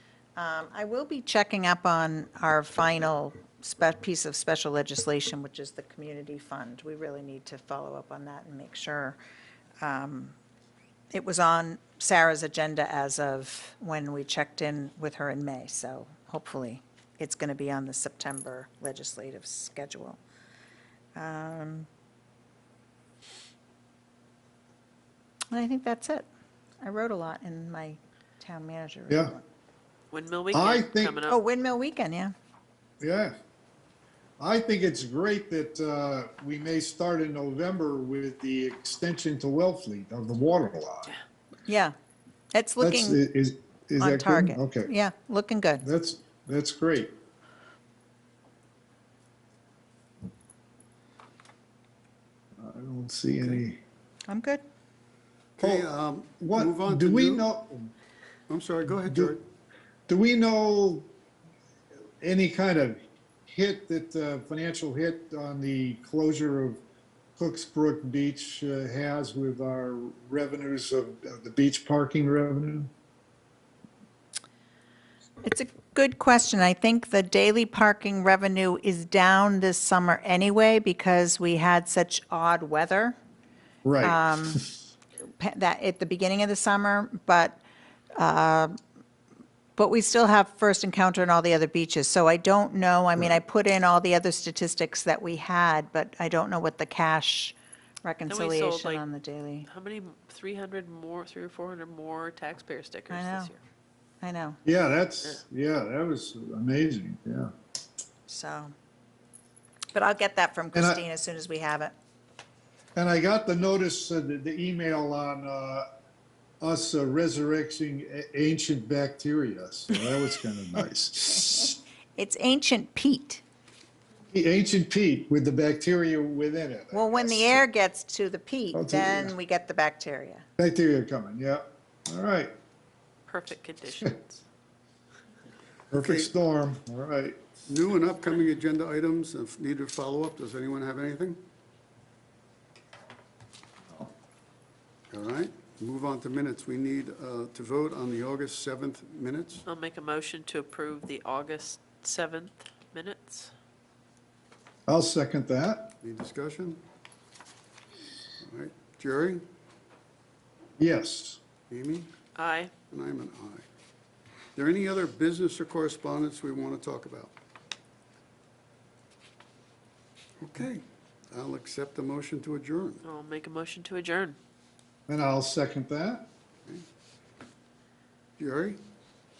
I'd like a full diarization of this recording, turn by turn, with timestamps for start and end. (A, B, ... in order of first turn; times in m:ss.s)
0:00.4-0:09.2 A
0:09.8-0:10.4 A
0:11.1-0:20.2 A
0:21.2-0:21.9 A
0:25.5-0:26.3 A
0:26.8-0:29.4 A
0:30.1-0:31.4 B
0:30.5-0:31.2 C
0:31.3-0:32.3 A
0:33.0-0:33.4 C
0:34.4-0:41.1 C
0:41.7-0:42.0 A
0:42.5-0:43.2 A
0:42.8-0:44.9 C
0:44.0-0:45.8 A
0:45.8-0:47.1 C
0:52.6-0:53.8 C
0:54.3-0:54.6 A
0:55.6-0:57.4 D
0:55.6-0:57.9 C
0:58.5-0:59.4 D
0:59.1-0:59.4 C
1:00.1-1:01.1 C
1:02.2-1:06.8 C
1:07.4-1:12.9 C
1:15.4-1:23.2 A
1:23.8-1:24.6 C
1:24.0-1:24.6 A
1:25.2-1:27.6 A
1:28.2-1:28.8 A
1:29.8-1:39.7 A
1:38.3-1:39.0 B
1:39.7-1:43.6 B
1:43.1-1:43.5 A
1:44.2-1:44.6 A
1:44.6-1:47.5 C
1:48.3-1:48.7 A
1:49.9-1:51.9 A
1:50.8-1:51.0 C
1:53.0-1:55.8 C
1:56.6-2:01.8 C
2:02.2-2:03.4 A
2:04.3-2:07.6 C
2:06.9-2:10.4 A
2:08.7-2:09.4 C
2:10.6-2:12.5 C
2:13.3-2:14.4 B
2:15.9-2:17.4 C
2:16.0-2:16.3 D
2:17.7-2:21.4 D
2:25.1-2:29.6 D
2:29.7-2:33.5 B
2:34.9-2:35.9 C
2:36.0-2:36.8 D
2:38.4-2:39.4 D
2:40.8-2:41.4 C
2:41.7-2:42.1 D
2:42.4-2:42.7 B
2:42.9-2:43.6 D
2:44.6-2:47.3 D
2:50.4-2:53.0 D
2:53.0-2:54.4 B
2:55.1-2:56.3 C
2:58.4-2:58.8 D